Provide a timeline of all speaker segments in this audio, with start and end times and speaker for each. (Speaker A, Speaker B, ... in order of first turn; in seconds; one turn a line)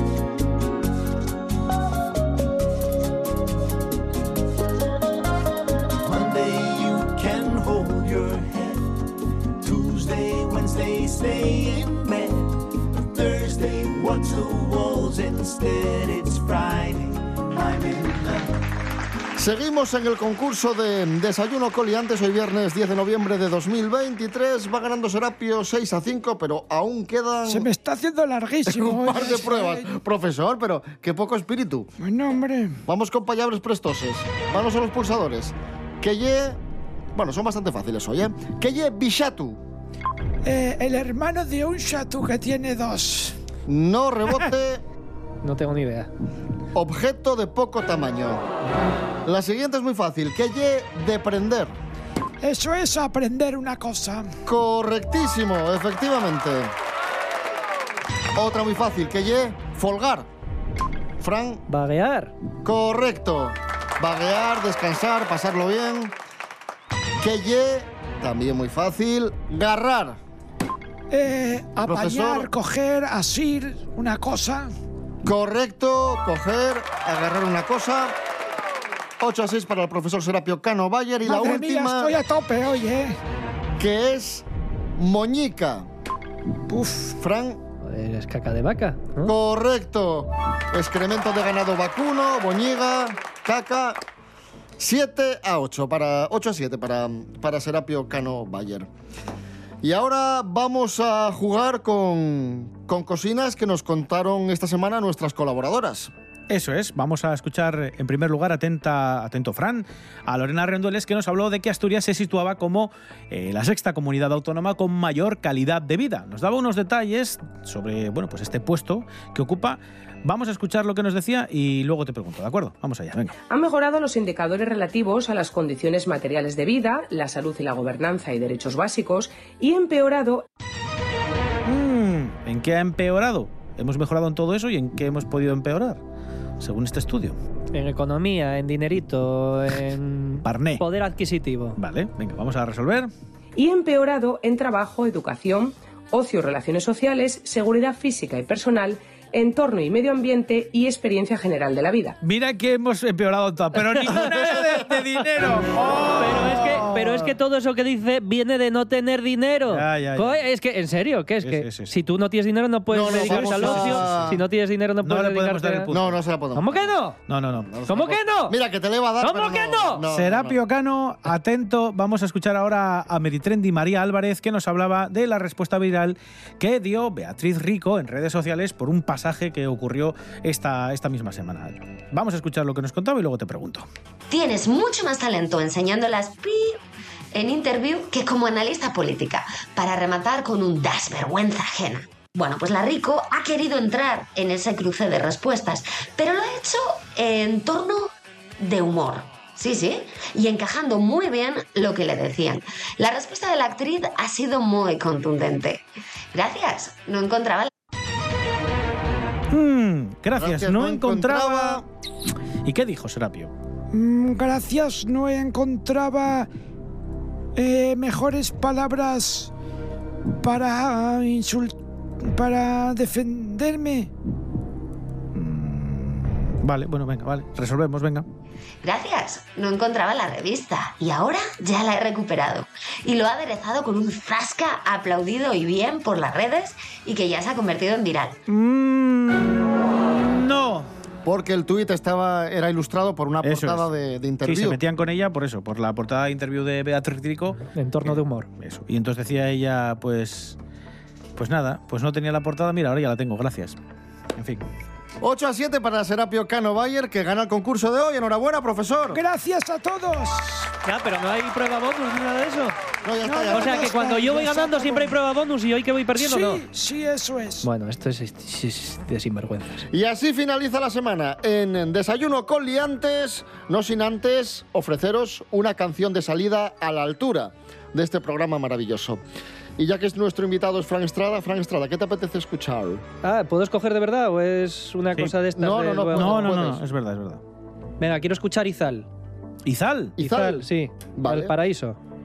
Speaker A: 6.0-8.9
Speaker A: 9.6-18.6
Speaker B: 19.4-27.7
Speaker C: 27.4-29.9
Speaker B: 28.6-31.9
Speaker C: 32.0-32.8
Speaker B: 32.9-36.6
Speaker B: 37.1-39.6
Speaker C: 40.4-43.4
Speaker B: 43.7-44.8
Speaker D: 45.4-46.1
Speaker B: 46.7-48.4
Speaker B: 49.2-51.8
Speaker C: 52.4-54.3
Speaker B: 54.4-56.7
Speaker B: 58.3-60.3
Speaker B: 61.2-61.6
Speaker D: 61.7-62.3
Speaker B: 62.6-66.1
Speaker B: 67.2-70.2
Speaker C: 71.1-74.7
Speaker B: 71.8-72.5
Speaker B: 75.2-78.2
Speaker B: 79.2-82.2
Speaker C: 81.2-83.2
Speaker B: 83.8-84.5
Speaker B: 85.0-85.9
Speaker C: 86.7-87.1
Speaker B: 87.2-87.6
Speaker D: 87.8-89.3
Speaker B: 89.2-94.0
Speaker B: 94.8-98.9
Speaker B: 99.8-106.1
Speaker E: 106.5-123.3
Speaker F: 123.5-130.4
Speaker E: 131.6-136.0
Speaker E: 136.6-137.4
Speaker D: 137.7-141.8
Speaker E: 140.4-140.8
Speaker E: 141.8-143.1
Speaker F: 143.6-152.2
Speaker E: 152.2-157.3
Speaker D: 156.2-165.9
Speaker E: 159.7-160.4
Speaker E: 161.4-161.9
Speaker B: 162.9-164.4
Speaker E: 163.1-164.4
Speaker E: 165.0-166.2
Speaker B: 165.9-166.9
Speaker D: 166.5-167.2
Speaker E: 167.3-168.2
Speaker D: 167.9-168.5
Speaker B: 168.5-170.6
Speaker D: 169.2-170.0
Speaker E: 170.1-183.8
Speaker G: 184.3-186.8
Speaker G: 187.3-205.8
Speaker G: 206.3-207.7
Speaker E: 209.5-211.8
Speaker B: 210.3-211.8
Speaker E: 212.6-213.5
Speaker C: 213.9-216.5
Speaker C: 217.5-219.5
Speaker C: 220.4-224.1
Speaker E: 225.3-228.2
Speaker G: 228.8-238.4
Speaker E: 238.5-239.6
Speaker E: 240.2-240.9
Speaker B: 241.2-244.8
Speaker E: 243.4-243.8
Speaker E: 244.4-250.6
Speaker D: 247.7-248.5
Speaker E: 251.4-253.8
Speaker E: 254.3-254.6
Speaker B: 255.2-259.2
Speaker C: 259.1-260.7
Speaker D: 260.8-262.7
Speaker B: 263.0-264.2
Speaker C: 263.2-265.1
Speaker D: 263.5-266.6
Speaker C: 266.2-267.7
Speaker D: 267.6-269.9
Speaker B: 269.9-279.2
Speaker B: 279.8-283.0
Speaker D: 283.2-286.6
Speaker E: 285.1-285.4
Speaker B: 285.6-286.8
Speaker E: 286.1-287.4
Speaker D: 288.0-289.1
Speaker E: 289.6-290.1
Speaker B: 290.2-291.5
Speaker D: 290.2-292.0